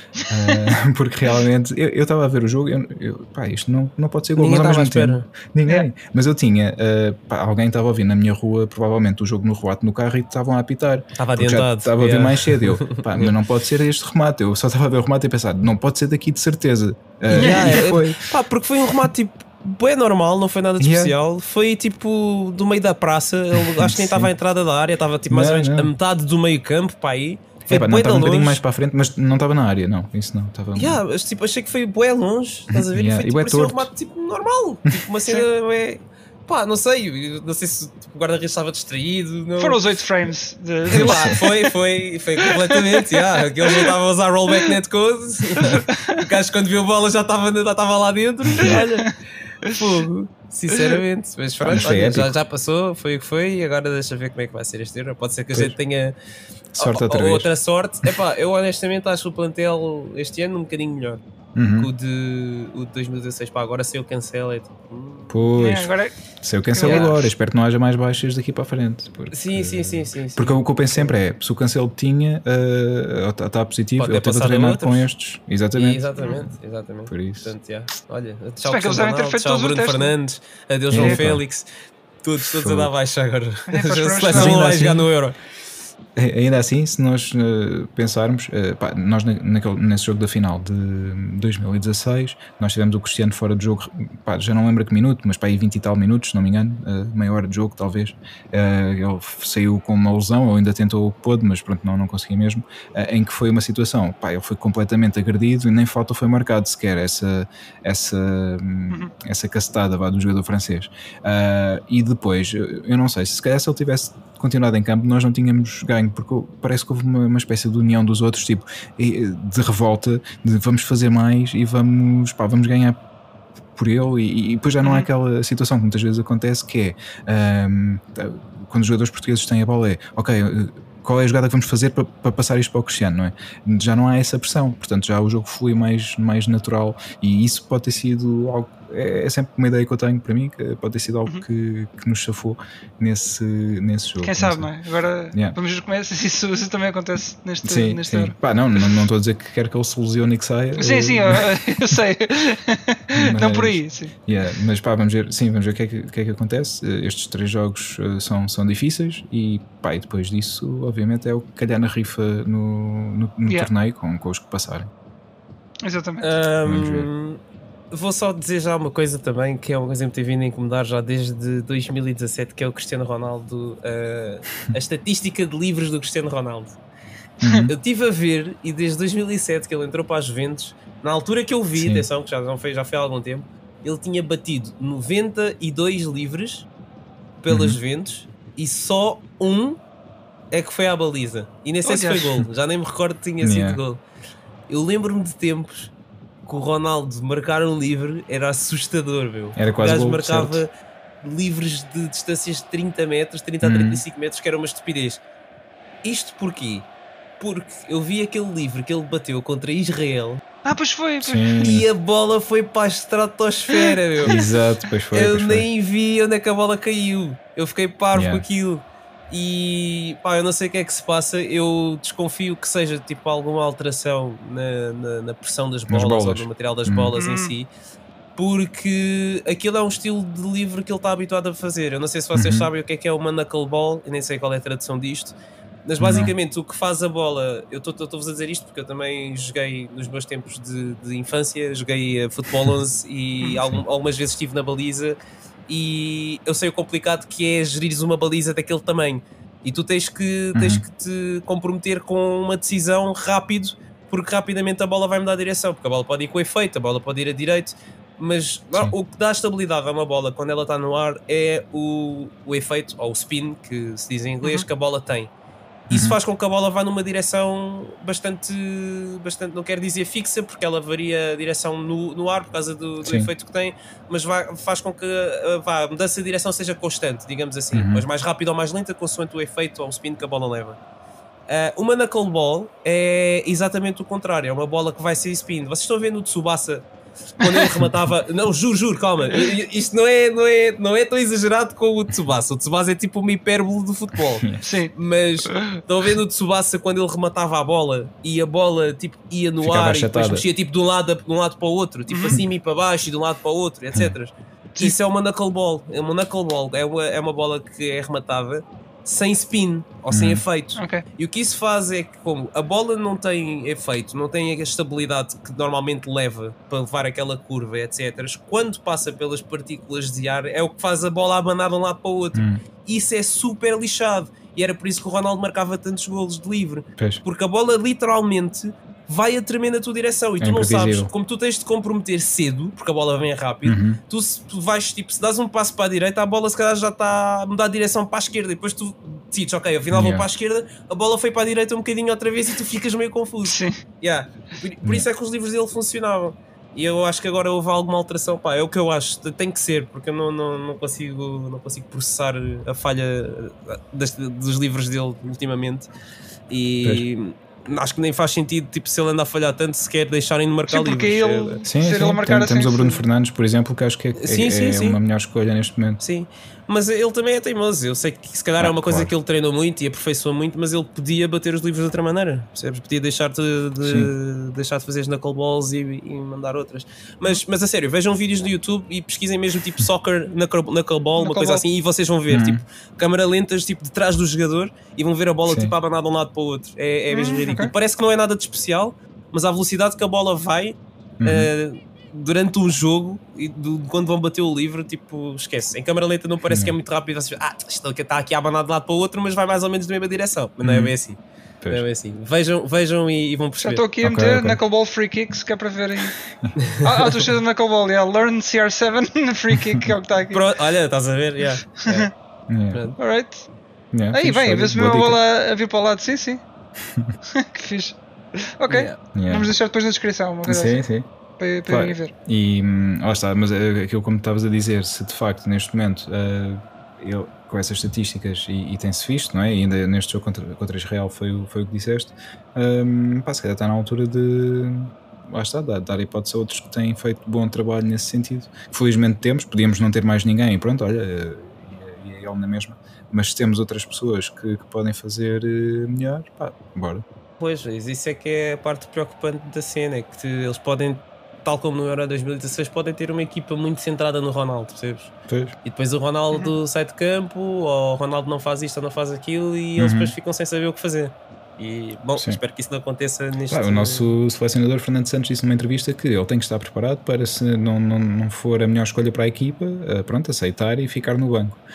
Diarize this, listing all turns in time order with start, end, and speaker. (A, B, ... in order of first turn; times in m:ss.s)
0:00.2-0:18.2 A
0:04.4-0:05.3 B
0:11.2-0:13.3 B
0:17.3-0:28.6 B
0:17.3-0:17.9 C
0:20.8-0:21.1 A
0:23.6-0:24.3 A
0:25.3-0:25.9 A
0:27.7-0:31.0 A
0:30.7-0:39.8 B
0:32.7-0:33.9 A
0:39.6-0:41.7 C
0:40.9-0:41.4 A
0:40.9-0:56.1 B
0:42.4-0:43.9 C
0:45.6-0:46.2 C
0:48.6-0:49.1 C
0:51.6-0:52.4 A
0:56.7-0:57.5 A
0:56.8-1:01.2 B
1:01.6-1:01.9 A
1:01.7-1:05.3 B
1:05.3-1:16.5 A
1:05.6-1:06.1 C
1:06.7-1:07.1 C
1:06.8-1:07.2 B
1:09.3-1:11.1 B
1:14.0-1:15.1 B
1:15.7-1:21.7 B
1:17.1-1:17.5 A
1:18.6-1:20.1 C
1:20.9-1:21.4 A
1:22.2-1:25.4 B
1:22.4-1:22.9 A
1:23.7-1:25.1 C
1:24.3-1:24.6 A
1:26.2-2:03.0 A
2:03.8-2:24.7 A
2:04.8-2:05.1 C
2:24.2-2:28.4 C
2:27.6-2:32.0 A
2:30.8-2:34.1 C
2:33.1-2:44.9 A
2:45.8-2:46.4 C
2:46.2-2:56.8 B
2:46.6-2:47.1 A
2:57.4-2:57.7 A
2:57.7-3:06.7 B
3:01.8-3:02.0 A
3:07.4-3:09.8 B
3:07.5-3:07.8 A
3:10.5-3:14.0 B
3:11.8-3:12.4 C
3:13.4-3:13.8 A
3:14.7-3:15.9 B
3:16.4-3:20.7 B
3:19.6-3:20.6 A
3:21.2-3:25.2 B
3:23.6-3:24.0 A
3:26.0-3:26.9 B
3:27.4-3:30.4 B
3:30.6-3:31.4 C
3:31.2-3:31.9 A
3:31.6-3:34.4 B
3:33.7-3:34.5 C
3:34.3-3:35.7 A
3:35.1-3:47.7 B
3:38.1-3:38.4 A
3:45.9-3:47.1 A
3:47.2-3:47.5 C
3:48.4-4:05.2 B
3:52.4-3:52.7 A
3:56.0-3:56.3 A
4:05.7-4:25.3 B
4:10.6-4:10.8 A
4:25.9-4:26.2 A
4:25.9-4:40.8 B
4:37.7-4:38.0 A
4:41.5-4:46.9 B
4:47.4-5:55.9 B
4:54.6-4:54.9 C
4:55.4-4:55.8 C
4:59.6-5:00.4 A
5:02.1-5:02.4 C
5:10.1-5:10.4 A
5:10.8-5:11.0 C
5:22.3-5:22.6 A
5:27.0-5:27.2 A
5:30.4-5:31.1 A
5:33.6-5:34.0 A
5:39.9-5:40.3 A
5:43.4-5:43.7 C
5:56.5-6:01.6 B
6:00.7-6:03.0 C
6:01.6-6:06.0 A
6:04.2-6:05.0 B
6:06.0-6:43.8 B
6:08.6-6:09.1 A
6:13.8-6:14.1 A
6:21.2-6:21.6 C
6:22.3-6:22.6 A
6:25.4-6:25.7 A
6:27.1-6:27.7 C
6:31.2-6:31.5 A
6:36.5-6:36.8 A
6:40.6-6:40.9 A
6:43.6-6:46.2 C
6:44.0-6:44.6 A
6:46.8-6:50.5 C
6:50.3-6:52.1 B
6:52.5-6:52.8 A
6:52.7-6:53.0 B
6:53.0-6:53.5 C
6:53.9-6:55.2 A
6:54.1-6:56.4 C
6:57.4-7:00.8 C
6:58.7-6:59.0 B
6:59.1-6:59.5 A
7:00.4-7:01.1 A
7:01.4-7:02.1 C
7:01.7-7:27.0 A
7:27.4-7:35.1 B
7:35.3-7:35.6 A
7:35.6-7:44.1 B
7:39.8-7:40.1 A
7:43.5-7:51.6 A